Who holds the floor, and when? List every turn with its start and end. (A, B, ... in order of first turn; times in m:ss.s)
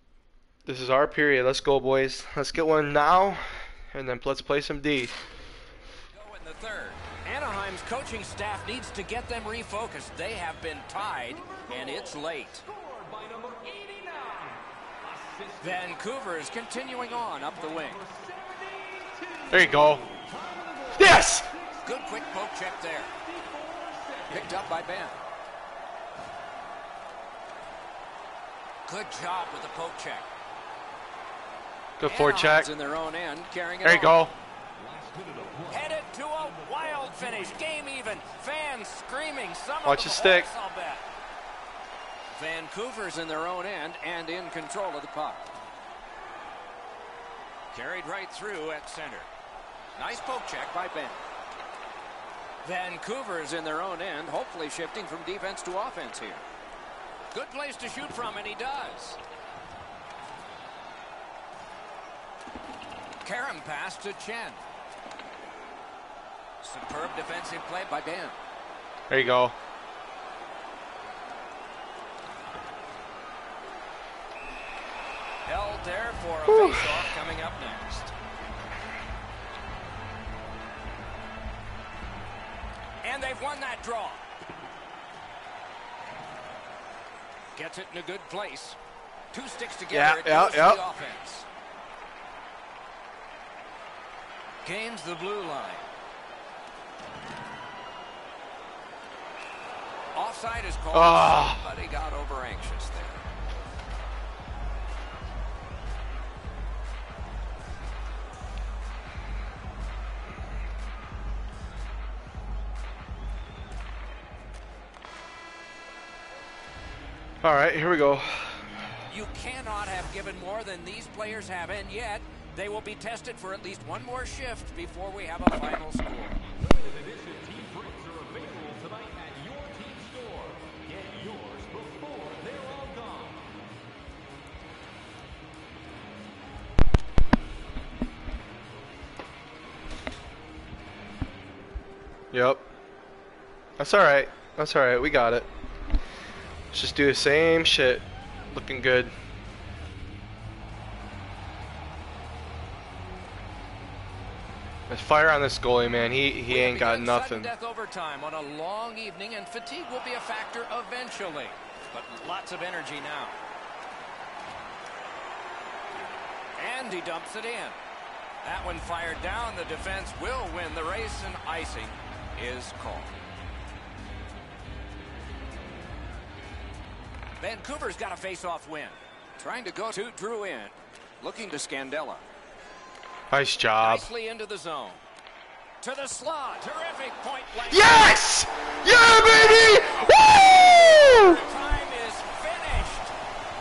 0:00.6-0:05.2 A
0:06.1-0:12.6 B
0:11.0-0:16.2 C
0:15.6-0:18.0 B
0:16.8-0:24.6 C
0:19.5-0:20.0 A
0:20.9-0:21.5 A
0:21.8-0:23.1 B
0:24.3-0:25.2 B
0:28.9-0:30.3 B
0:32.0-0:32.7 A
0:32.0-0:34.2 B
0:33.8-0:34.3 A
0:34.8-0:37.7 C
0:35.7-0:41.0 B
0:39.8-0:40.5 A
0:42.3-0:45.5 B
0:47.7-0:49.3 B
0:50.0-0:51.2 B
0:52.6-0:56.4 B
0:57.3-0:59.2 B
1:03.2-1:04.6 B
1:06.6-1:08.4 B
1:09.1-1:09.5 A
1:15.4-1:18.1 B
1:16.5-1:17.1 A
1:23.0-1:24.2 B
1:27.5-1:28.8 B
1:29.3-1:31.5 B
1:29.9-1:30.8 A
1:34.6-1:35.9 B
1:40.1-1:43.2 B
1:40.9-1:41.6 A
1:57.4-1:58.7 A
1:59.1-2:06.4 B
2:06.5-2:13.5 C
2:22.3-2:22.6 A
2:23.8-2:25.5 A
2:26.7-2:29.1 A
2:34.9-2:37.5 A
2:36.5-2:43.4 B
2:46.6-2:47.8 B
2:48.4-2:53.1 B
2:57.4-3:02.2 B
3:03.3-3:04.1 A
3:03.8-3:05.0 B
3:05.8-3:08.2 B
3:07.7-3:11.4 A
3:09.3-3:13.1 B